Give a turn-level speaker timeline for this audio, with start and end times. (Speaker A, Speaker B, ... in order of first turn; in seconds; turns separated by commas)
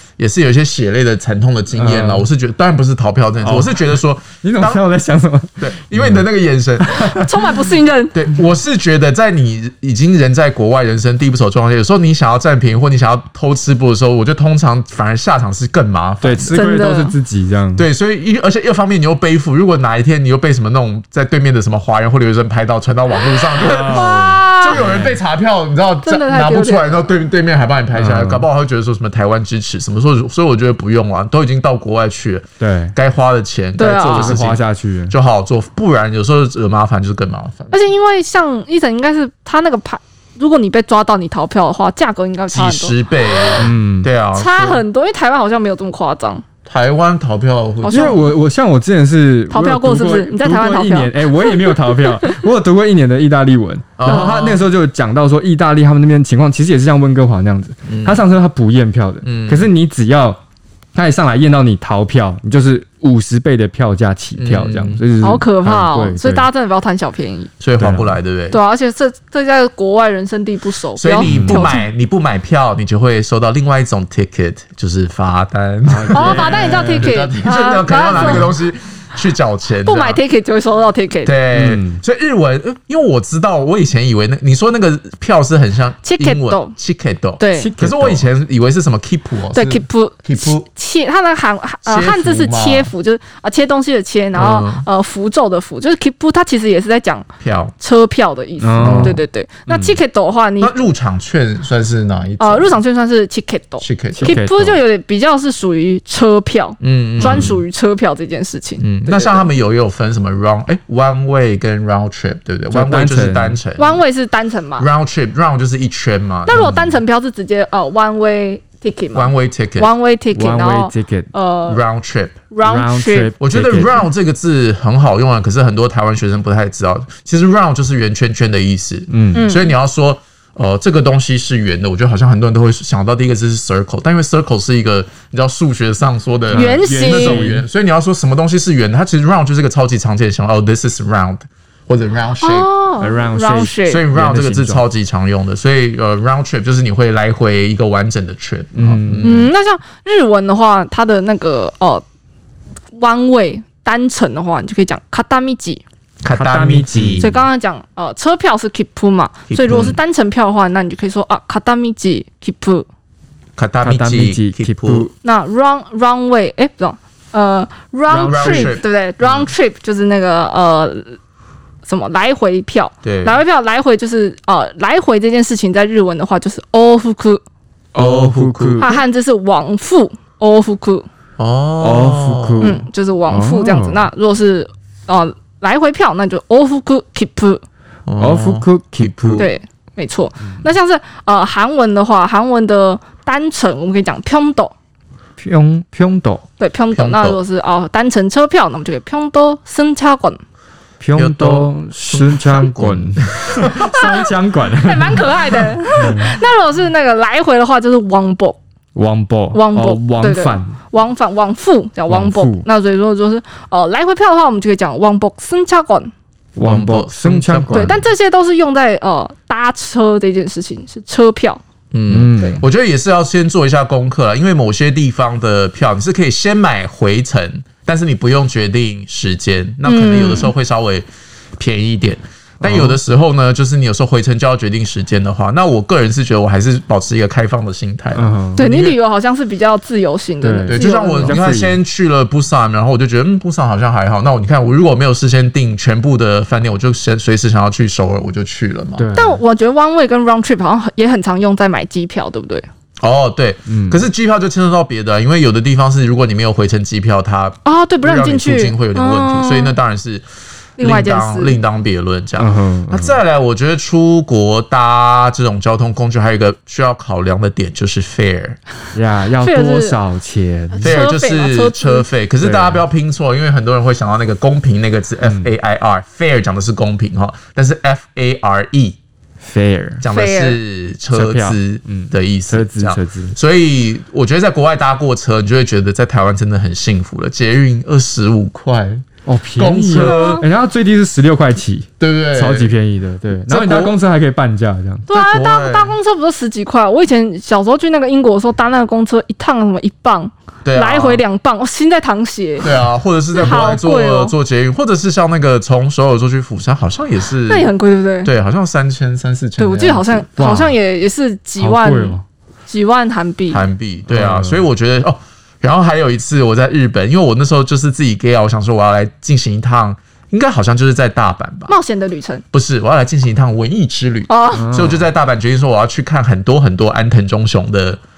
Speaker A: 0.2-4.8, Speaker B: 1.7-2.3, Speaker B: 3.4-6.2, Speaker A: 5.6-7.1, Speaker B: 6.8-7.3, Speaker C: 7.1-8.1, Speaker A: 8.1-16.6, Speaker B: 16.2-17.9, Speaker C: 16.5-17.1, Speaker A: 17.8-37.8, Speaker B: 23.6-25.2, Speaker C: 23.9-24.8, Speaker C: 26.0-27.1, Speaker B: 27.9-28.5, Speaker B: 32.6-32.9, Speaker C: 33.8-34.4, Speaker B: 34.1-35.1, Speaker C: 37.7-43.0, Speaker A: 42.5-44.8, Speaker B: 43.6-44.1, Speaker C: 44.3-46.4, Speaker A: 46.7-48.3, Speaker B: 47.8-60.4, Speaker C: 47.9-48.2, Speaker C: 49.5-51.8, Speaker A: 54.0-54.6, Speaker A: 57.9-58.2, Speaker A: 59.2-59.7, Speaker B: 61.0-66.5, Speaker A: 64.4-65.0, Speaker C: 65.2-67.5, Speaker A: 67.6-68.6, Speaker B: 67.8-68.1, Speaker C: 68.5-71.8, Speaker A: 71.0-80.2, Speaker B: 71.2-71.7, Speaker B: 75.9-77.2, Speaker C: 76.1-78.5, Speaker B: 78.0-78.5, Speaker C: 79.8-81.3, Speaker A: 81.2-90.7, Speaker B: 81.5-82.0, Speaker C: 86.0-86.8, Speaker C: 87.4-87.7, Speaker B: 87.5-88.3, Speaker C: 89.5-97.3, Speaker A: 91.9-92.9, Speaker A: 94.3-94.8, Speaker A: 97.4-97.7, Speaker C: 97.8-100.8, Speaker B: 98.6-100.0, Speaker A: 98.8-99.2, Speaker A: 100.6-102.8, Speaker C: 102.4-109.5, Speaker A: 103.8-104.4, Speaker B: 104.2-104.8, Speaker A: 106.8-107.6, Speaker B: 107.2-107.6, Speaker A: 108.8-114.0, Speaker B: 112.7-113.6, Speaker C: 113.8-114.9, Speaker A: 114.8-116.7, Speaker C: 116.5-121.8, Speaker B: 116.5-117.0, Speaker A: 119.1-119.9, Speaker B: 120.3-121.3, Speaker A: 121.7-122.4, Speaker C: 122.5-123.3, Speaker B: 122.6-124.1, Speaker A: 123.4-142.7, Speaker B: 129.1-129.4, Speaker C: 129.3-129.7, Speaker B: 136.5-137.7, Speaker C: 136.5-137.4, Speaker C: 142.4-144.0, Speaker B: 143.0-144.8, Speaker A: 143.9-149.5, Speaker B: 148.7-149.5, Speaker C: 149.2-152.0, Speaker C: 152.9-155.8, Speaker A: 156.2-157.3, Speaker B: 156.3-157.4, Speaker C: 157.2-162.9, Speaker A: 159.5-160.0, Speaker A: 163.6-165.1, Speaker B: 163.8-165.1, Speaker C: 165.2-171.2, Speaker B: 168.1-168.8, Speaker A: 168.1-169.5, Speaker C: 171.9-177.4, Speaker A: 173.0-173.4, Speaker B: 177.9-178.9, Speaker A: 178.0-179.0, Speaker C: 178.8-181.1, Speaker A: 181.4-182.8, Speaker B: 181.8-184.1, Speaker C: 182.6-187.6, Speaker A: 188.1-189.5, Speaker B: 188.2-189.5, Speaker C: 189.4-194.7, Speaker B: 195.4-196.4, Speaker C: 196.6-200.4, Speaker A: 196.9-197.4, Speaker B: 201.0-206.3, Speaker A: 201.2-204.2, Speaker C: 203.8-208.6, Speaker B: 208.9-210.8, Speaker C: 209.5-216.1, Speaker B: 212.1-212.7, Speaker B: 216.6-218.0, Speaker A: 216.6-218.1, Speaker C: 217.7-221.6, Speaker A: 221.9-231.1, Speaker B: 222.1-222.7, Speaker C: 229.8-230.5, Speaker A: 231.6-239.0, Speaker B: 232.6-233.0, Speaker B: 238.1-238.7, Speaker C: 238.6-241.4, Speaker B: 240.4-241.8, Speaker A: 240.7-249.1, Speaker B: 249.0-249.4, Speaker C: 249.2-252.7, Speaker A: 253.0-260.2, Speaker B: 253.7-254.1, Speaker C: 257.6-259.8, Speaker C: 260.8-261.6, Speaker A: 260.8-268.6, Speaker B: 262.4-263.2, Speaker B: 268.9-271.0, Speaker C: 269.4-270.0, Speaker C: 270.8-272.1, Speaker A: 270.8-279.0, Speaker B: 272.4-272.9, Speaker B: 275.2-275.5, Speaker B: 279.4-280.1, Speaker A: 280.0-290.4, Speaker C: 280.1-280.6, Speaker B: 281.1-283.4, Speaker B: 289.2-295.1, Speaker C: 290.0-290.4, Speaker A: 292.0-292.7, Speaker A: 293.5-293.9, Speaker C: 295.1-302.7, Speaker A: 295.1-296.0, Speaker A: 300.6-301.2, Speaker A: 302.6-307.7, Speaker C: 303.3-304.4, Speaker C: 307.5-308.3, Speaker A: 308.2-310.3, Speaker C: 309.6-313.6, Speaker B: 310.4-310.8, Speaker B: 311.6-312.2, Speaker A: 313.5-321.8, Speaker B: 314.1-314.6, Speaker C: 321.7-322.4, Speaker A: 322.5-328.0, Speaker C: 324.3-324.7, Speaker B: 324.5-325.1